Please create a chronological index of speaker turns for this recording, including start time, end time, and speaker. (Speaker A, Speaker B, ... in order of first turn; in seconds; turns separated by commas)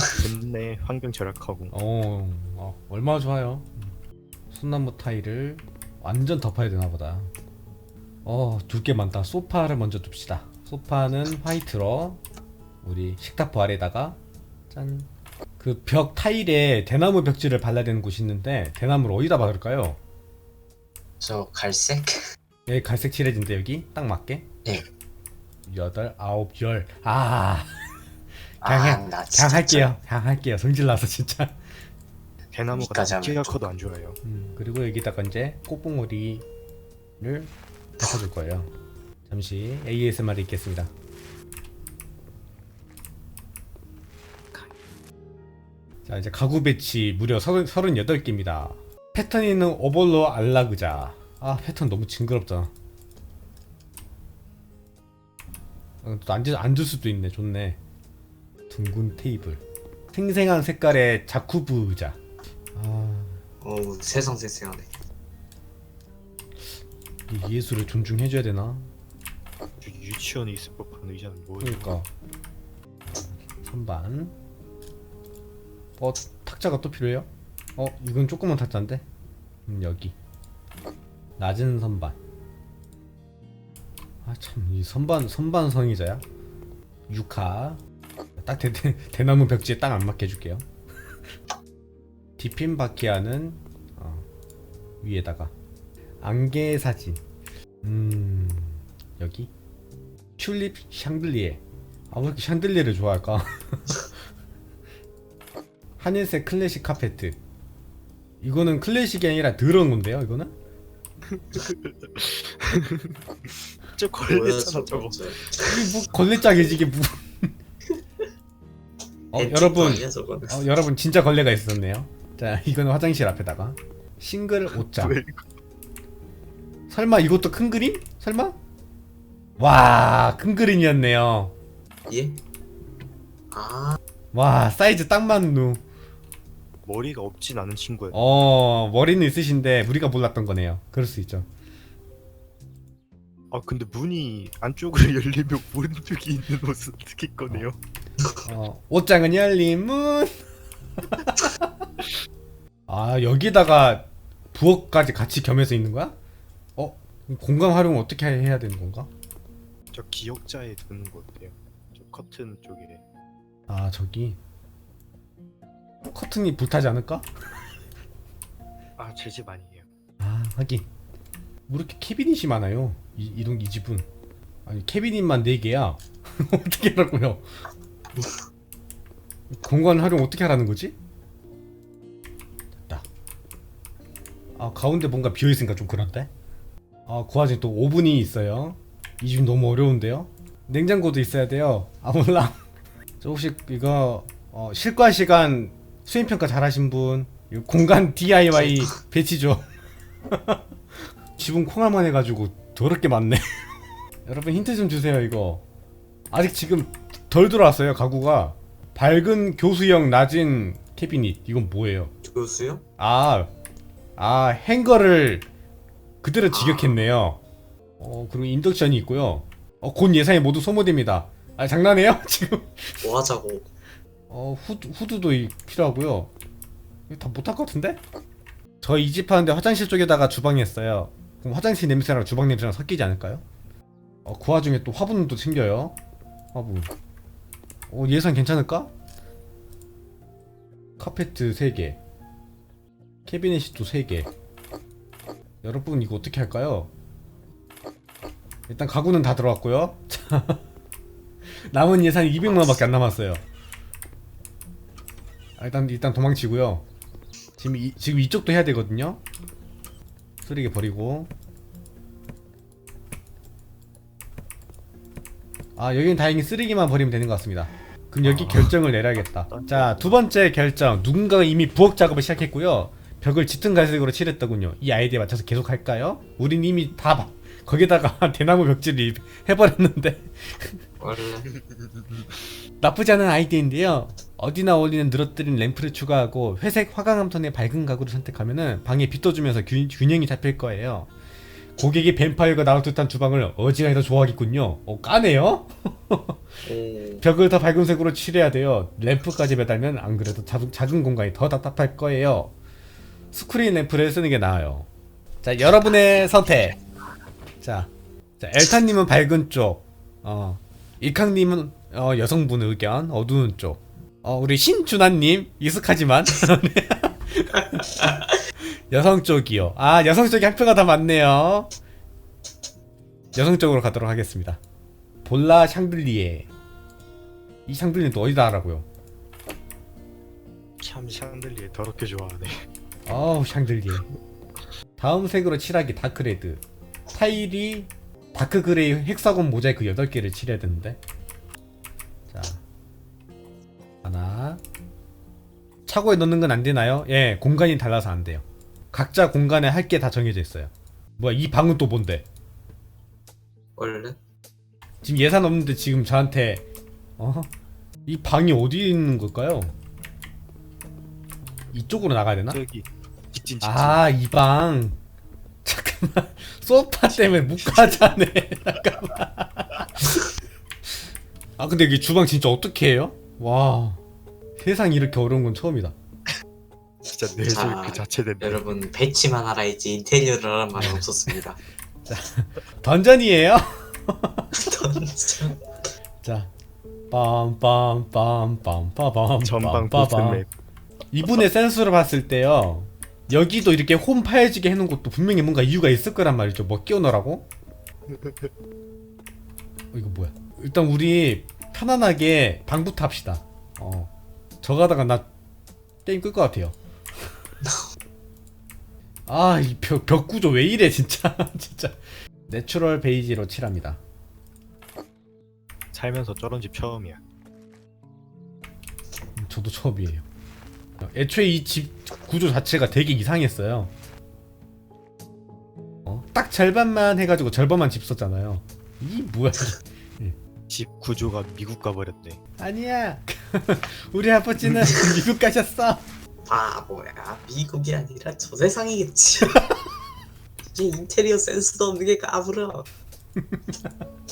Speaker A: 0.1-1.7, Speaker B: 1.7-3.9, Speaker B: 4.5-7.3, Speaker B: 8.2-12.2, Speaker B: 12.8-14.2, Speaker B: 14.7-20.0, Speaker C: 21.2-22.3, Speaker B: 22.7-24.5, Speaker B: 25.7-27.7, Speaker C: 28.6-30.0, Speaker B: 28.6-31.6, Speaker A: 32.5-34.2, Speaker C: 32.8-33.6, Speaker B: 34.2-36.5, Speaker B: 37.2-38.7, Speaker B: 39.3-40.9, Speaker B: 46.1-52.7, Speaker B: 56.0-57.8, Speaker B: 58.7-62.2, Speaker B: 62.8-63.4, Speaker C: 63.6-64.9, Speaker B: 67.3-68.9, Speaker A: 69.8-72.0, Speaker B: 71.6-72.1, Speaker B: 73.6-74.3, Speaker B: 76.0-79.0, Speaker B: 79.7-80.2, Speaker B: 81.4-82.2, Speaker B: 84.2-86.2, Speaker B: 87.1-87.8, Speaker B: 88.4-90.7, Speaker B: 92.4-94.3, Speaker B: 95.0-95.5, Speaker B: 96.2-97.2, Speaker B: 97.8-99.5, Speaker B: 100.4-104.1, Speaker B: 106.0-107.4, Speaker B: 108.4-110.5, Speaker A: 111.3-115.8, Speaker C: 114.3-115.9, Speaker B: 115.7-117.5, Speaker C: 119.3-120.6, Speaker B: 119.3-125.2, Speaker A: 124.7-125.5, Speaker B: 126.9-128.6, Speaker B: 129.6-131.5, Speaker C: 132.1-132.4, Speaker C: 133.5-134.0, Speaker B: 134.3-135.8, Speaker A: 136.8-138.2, Speaker B: 138.1-141.5, Speaker A: 143.5-147.8, Speaker B: 148.4-150.3, Speaker B: 151.1-151.8, Speaker B: 152.9-156.2, Speaker B: 156.8-159.1, Speaker A: 159.9-163.0, Speaker B: 163.7-164.4, Speaker B: 166.1-167.3, Speaker A: 169.0-169.9, Speaker B: 170.2-170.9, Speaker B: 171.7-174.1, Speaker B: 174.7-177.5, Speaker B: 179.5-180.9, Speaker B: 184.6-186.3, Speaker B: 187.1-192.6, Speaker B: 193.2-199.7, Speaker B: 200.3-200.6, Speaker B: 201.4-203.5, Speaker B: 204.2-205.6, Speaker B: 206.3-212.1, Speaker C: 212.2-212.8, Speaker B: 213.0-213.5, Speaker B: 214.2-215.5, Speaker B: 216.2-217.4, Speaker C: 216.5-217.0, Speaker B: 218.0-223.1, Speaker C: 223.0-223.7, Speaker B: 224.3-226.3, Speaker B: 227.1-228.0, Speaker B: 228.8-233.4, Speaker B: 234.3-236.0, Speaker B: 236.5-236.9, Speaker B: 237.9-238.9, Speaker B: 241.0-242.0, Speaker B: 243.3-244.3, Speaker B: 245.6-246.9, Speaker B: 248.7-250.6, Speaker B: 251.7-253.4, Speaker C: 252.5-252.8, Speaker B: 255.6-256.9, Speaker B: 257.6-259.2, Speaker B: 260.4-261.3, Speaker B: 265.8-280.8, Speaker A: 268.2-268.7, Speaker A: 269.5-270.2, Speaker C: 281.0-281.5, Speaker A: 281.5-282.3, Speaker B: 282.8-291.1, Speaker B: 291.8-296.4, Speaker C: 296.7-297.3, Speaker B: 297.2-302.5, Speaker B: 303.3-304.9, Speaker B: 305.4-306.8, Speaker B: 307.6-318.0, Speaker B: 318.9-321.7, Speaker B: 323.4-324.6, Speaker B: 325.2-326.5, Speaker B: 327.7-328.9, Speaker A: 330.8-332.7, Speaker B: 333.1-334.1, Speaker B: 335.0-336.6, Speaker B: 337.1-341.0, Speaker B: 342.3-342.6, Speaker B: 344.0-344.6, Speaker B: 345.9-352.2, Speaker C: 353.8-354.2, Speaker B: 355.0-356.6, Speaker B: 357.2-357.5, Speaker B: 358.1-359.7, Speaker B: 361.7-362.6, Speaker A: 362.5-364.0, Speaker B: 363.6-365.0, Speaker B: 365.6-369.9, Speaker A: 367.3-368.1, Speaker B: 371.6-374.0, Speaker B: 374.6-375.9, Speaker A: 377.1-378.7, Speaker C: 377.4-381.6, Speaker B: 380.8-381.1, Speaker B: 382.1-384.5, Speaker C: 384.5-385.6, Speaker B: 386.2-386.5, Speaker B: 387.1-390.4, Speaker A: 389.4-390.5, Speaker B: 391.1-397.5, Speaker A: 398.1-398.5, Speaker B: 399.9-404.1, Speaker B: 404.6-405.3, Speaker B: 406.1-406.8, Speaker B: 409.3-414.0, Speaker A: 415.9-417.2, Speaker B: 419.4-420.2, Speaker B: 421.0-423.9, Speaker B: 426.1-430.4, Speaker A: 430.7-432.4, Speaker B: 432.6-436.1, Speaker C: 436.5-439.7, Speaker C: 440.7-442.9, Speaker B: 443.4-444.1